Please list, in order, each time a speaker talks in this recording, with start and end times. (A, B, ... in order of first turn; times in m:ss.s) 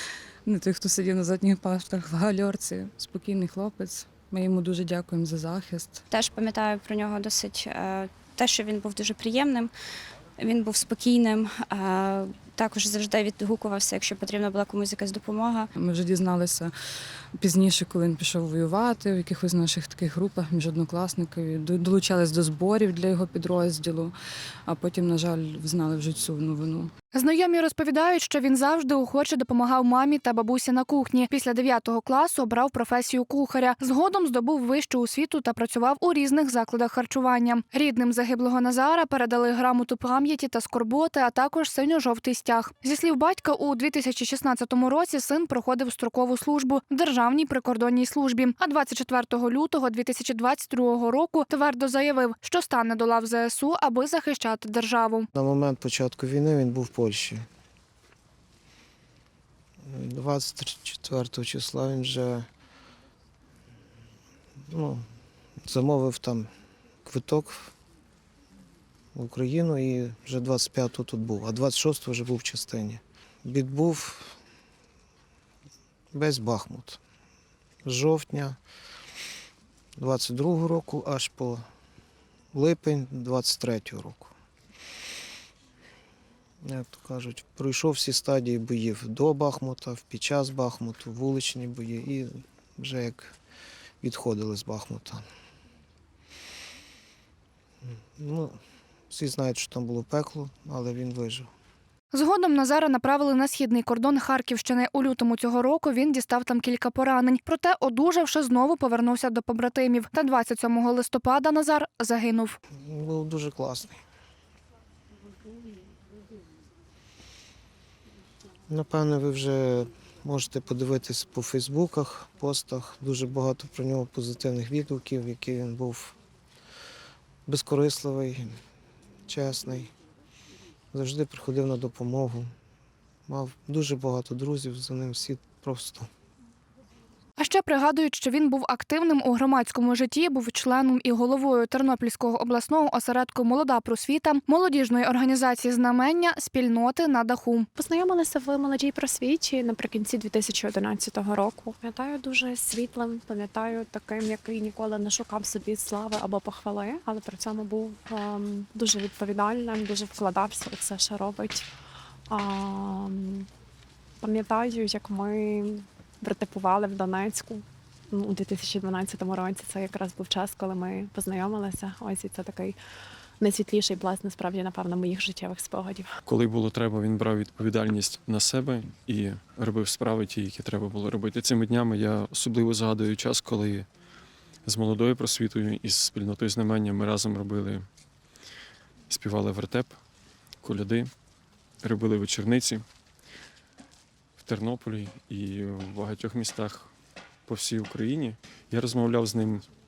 0:00.4-0:06.0 A
0:06.1-0:09.7 B
0:10.4-0:15.7 B
0:15.8-0:16.7 A
0:17.4-0:24.1 A
0:24.7-0:26.9 A
0:27.1-0:55.3 C
0:55.3-0:57.4 D
0:59.8-1:02.5 D
1:04.7-1:05.0 D
1:05.6-1:06.5 D
1:07.0-1:07.7 D
1:09.2-1:14.4 D
1:16.1-1:17.0 D
1:17.8-1:18.6 D
1:20.0-1:21.6 D
1:22.5-1:24.3 D
1:26.6-1:33.4 D
1:34.0-1:35.2 D
1:37.8-1:38.6 D
1:39.1-1:41.5 D
1:42.1-1:52.6 C
1:52.7-1:54.0 D
1:58.7-2:06.2 D
2:07.5-2:08.6 D
2:09.3-2:09.9 D
2:10.9-2:12.5 D
2:13.3-2:16.1 D
2:17.4-2:27.7 C
2:27.8-2:41.7 E
2:42.3-2:43.5 E
2:44.2-2:52.8 E
2:53.4-2:56.1 E
2:56.2-3:03.9 F
3:04.6-3:07.9 F
3:09.1-3:10.0 F
3:10.6-3:11.1 F
3:11.8-3:12.8 F
3:14.4-3:16.9 F
3:17.5-3:19.7 F